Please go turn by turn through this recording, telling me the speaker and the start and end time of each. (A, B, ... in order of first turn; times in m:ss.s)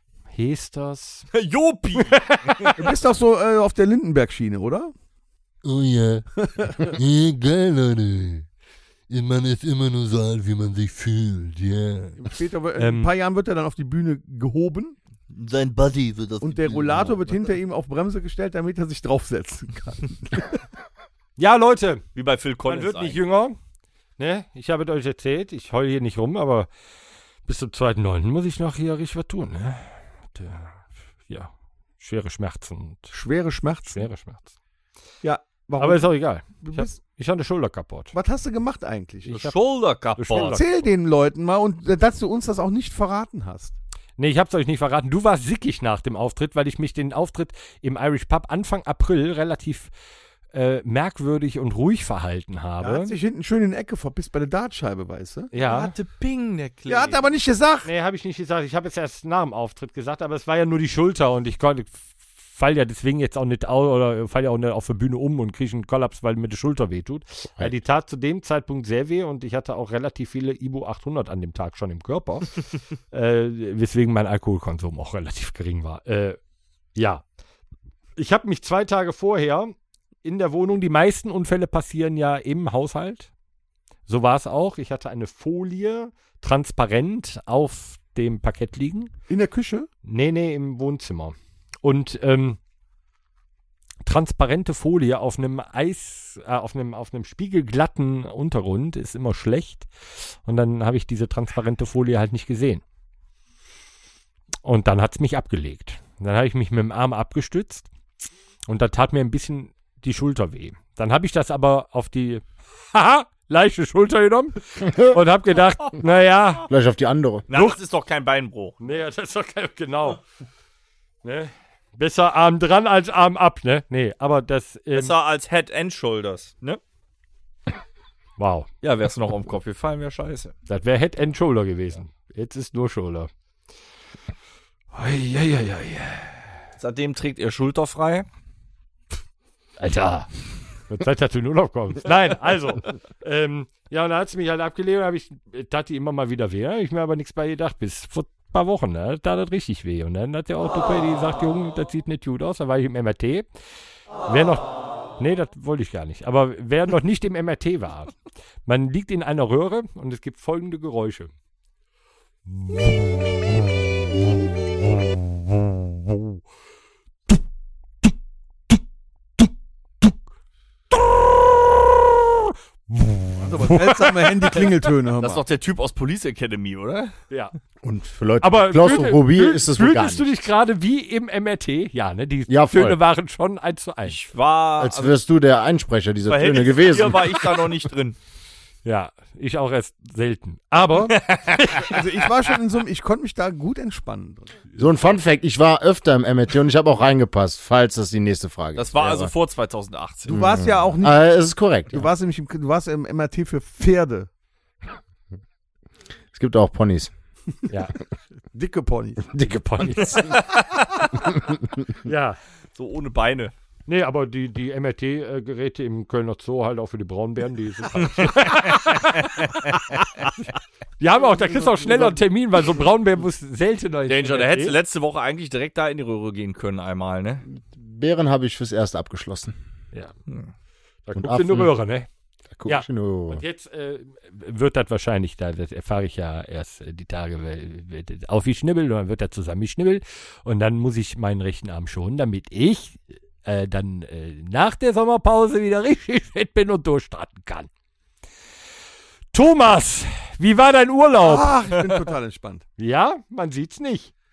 0:00.3-0:01.3 A
0:01.3-0:02.8 B
0:02.0-0:02.8 A
0:02.8-0:04.9 C
0:05.6-0:06.3 D
0:06.6-0:06.9 C
0:06.9-0:08.4 D
0:09.1-0:12.2 D
0:10.3-0:10.9 B
0:12.2-0:15.0 C
0:12.8-0:13.1 A
0:15.3-0:17.5 B
0:16.4-0:20.6 C
0:21.4-0:22.0 A
0:22.2-0:23.2 B
0:22.7-0:23.6 A
0:24.2-0:26.7 A
0:27.5-0:33.1 A
0:33.1-0:34.1 C
0:33.9-0:34.5 A
0:35.2-0:36.1 C
0:35.8-0:38.2 A
0:36.6-0:37.0 C
0:38.1-0:39.4 C
0:39.3-0:40.6 B
0:39.3-0:39.5 A
0:40.2-0:40.8 A
0:40.4-0:43.8 C
0:44.2-0:49.9 A
0:50.5-0:53.1 A
0:52.8-0:55.5 C
0:55.5-0:55.9 A
0:55.6-0:57.2 B
0:56.9-0:57.9 C
0:57.8-1:12.6 A
1:13.1-1:16.4 A
1:17.0-1:17.2 A
1:18.2-1:23.3 A
1:24.1-1:29.1 A
1:29.3-1:29.9 C
1:30.0-1:32.6 A
1:34.0-1:42.8 A
1:44.6-1:47.9 A
1:48.7-1:56.7 A
1:54.8-1:55.2 E
1:56.7-1:57.5 E
1:57.5-1:58.8 B
1:57.5-1:57.8 A
1:58.8-2:00.2 A
2:01.2-2:05.1 A
2:04.9-2:06.8 B
2:08.4-2:08.7 A
2:08.8-2:10.6 B
2:10.7-2:13.3 A
2:14.9-2:16.5 A
2:16.8-2:18.3 B
2:19.8-2:20.3 A
2:20.9-2:33.5 A
2:34.2-2:38.1 A
2:38.6-2:41.3 A
2:42.5-2:43.7 A
2:44.4-2:46.3 A
2:52.3-2:54.7 A
2:53.4-2:55.4 C
2:55.2-2:57.2 B
2:57.8-3:00.3 E
2:58.4-3:04.2 A
3:02.5-3:03.0 E
3:04.1-3:05.2 B
3:04.8-3:07.5 E
3:06.3-3:08.2 B
3:08.8-3:12.0 A
3:11.1-3:11.9 B
3:11.8-3:14.6 C
3:14.8-3:19.3 E
3:18.8-3:20.4 B
3:20.3-3:21.3 C
3:20.3-3:22.1 E
3:21.9-3:24.3 C
3:26.3-3:27.1 E
3:27.7-3:28.0 A
3:28.5-3:29.2 C
3:29.3-3:30.4 E
3:29.4-3:30.4 A
3:32.0-3:32.4 A
3:32.8-3:33.5 B
3:33.9-3:39.5 A
3:38.2-3:39.6 B
3:41.0-3:44.8 A
3:41.3-3:42.2 C
3:44.1-3:47.4 B
3:47.6-3:49.6 E
3:51.1-3:52.1 A
3:51.2-3:51.7 E
3:52.5-3:53.4 E
3:52.7-4:07.7 A
4:09.3-4:11.6 A
4:11.2-4:12.6 C
4:12.8-4:14.1 A